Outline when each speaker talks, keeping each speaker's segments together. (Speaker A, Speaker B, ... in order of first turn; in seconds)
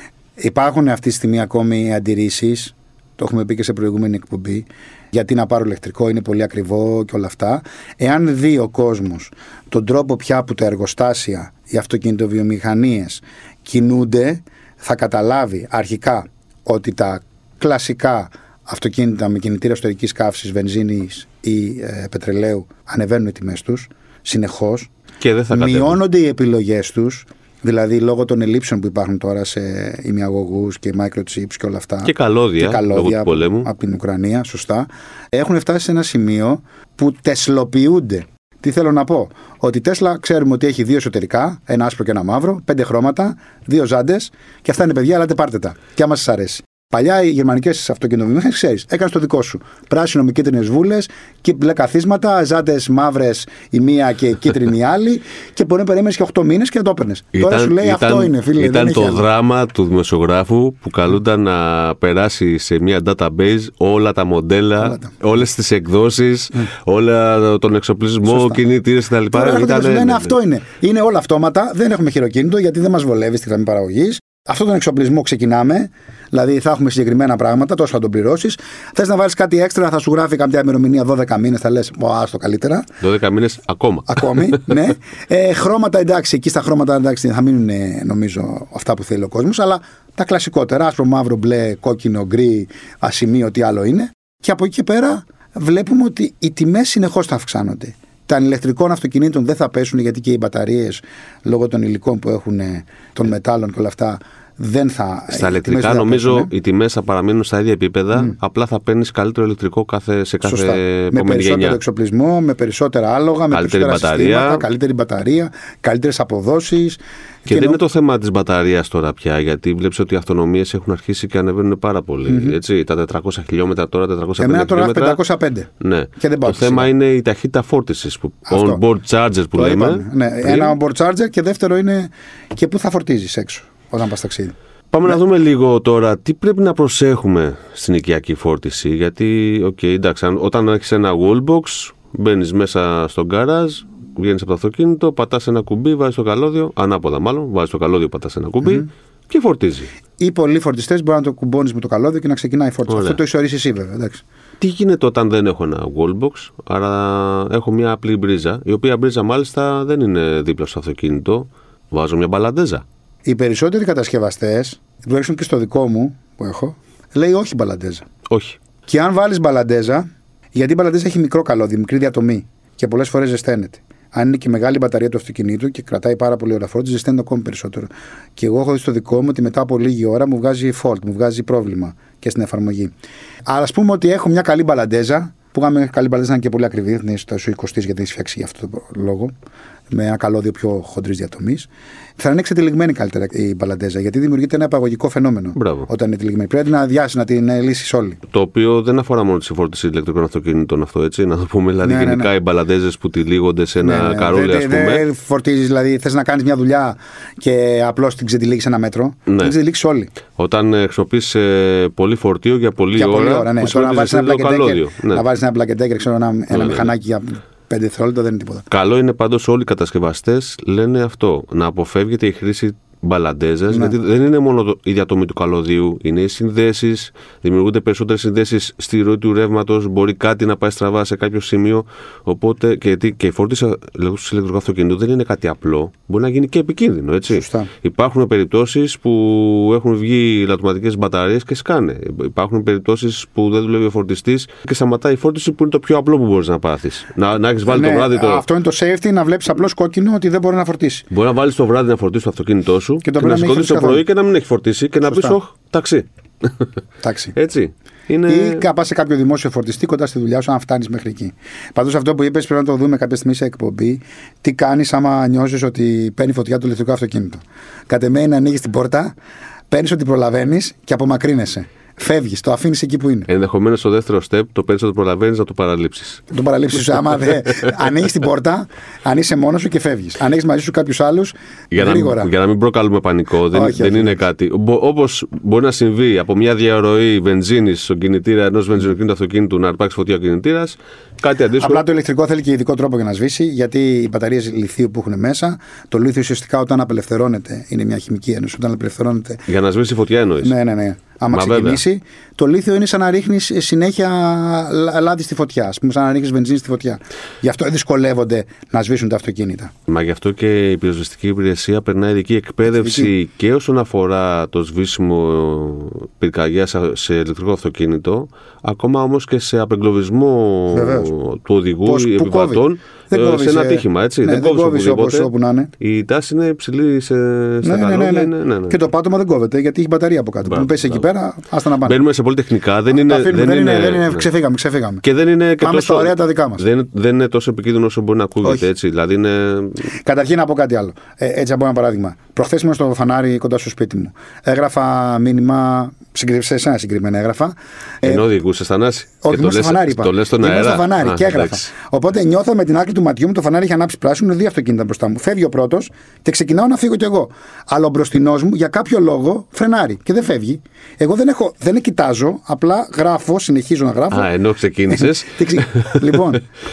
Speaker A: 0.4-24.9, 25.5-59.2, 64.8-65.1, 68.3-68.6, 69.3-82.9, 84.1-106.5, 110.5-117.8, 122.3-122.6, 124.4-126.9, 128.5-128.8, 129.6-134.5, 150.2-154.2, 163.2-168.1, 168.9-182.9, 183.5-189.3, 189.9-198.2, 201.8-202.3, 203.8-210.1, 213.0-218.7, 223.7-223.9, 237.3-237.7, 247.7-251.1, 253.0-254.0, 255.1-255.4, 257.0-257.3, 258.3-269.1, 269.7-273.3, 276.3-282.3, 283.5-284.2, 291.6-299.4, 300.4-309.7, 312.7-313.1, 320.7-321.1, 321.9-325.7, 327.6-332.0, 333.0-335.0, 335.6-336.6, 339.9-348.2, 349.2-364.3, 364.9-366.4
Speaker B: 25.2-26.0, 32.0-33.7, 57.3-70.3, 83.0-84.6, 105.3-111.8, 113.5-114.7, 117.5-125.2, 125.8-130.8, 134.9-149.9, 152.9-153.2, 154.6-162.8, 168.3-168.6, 195.6-195.9, 198.3-205.1, 209.3-209.5, 210.3-215.2, 216.5-216.9, 218.7-248.4, 251.1-256.7, 257.4-258.7, 273.3-276.2, 281.7-291.9, 299.5-300.6, 301.3-301.8, 309.9-328.8, 330.5-331.1, 331.8-334.2, 335.0-339.9, 348.0-351.7, 364.1-366.3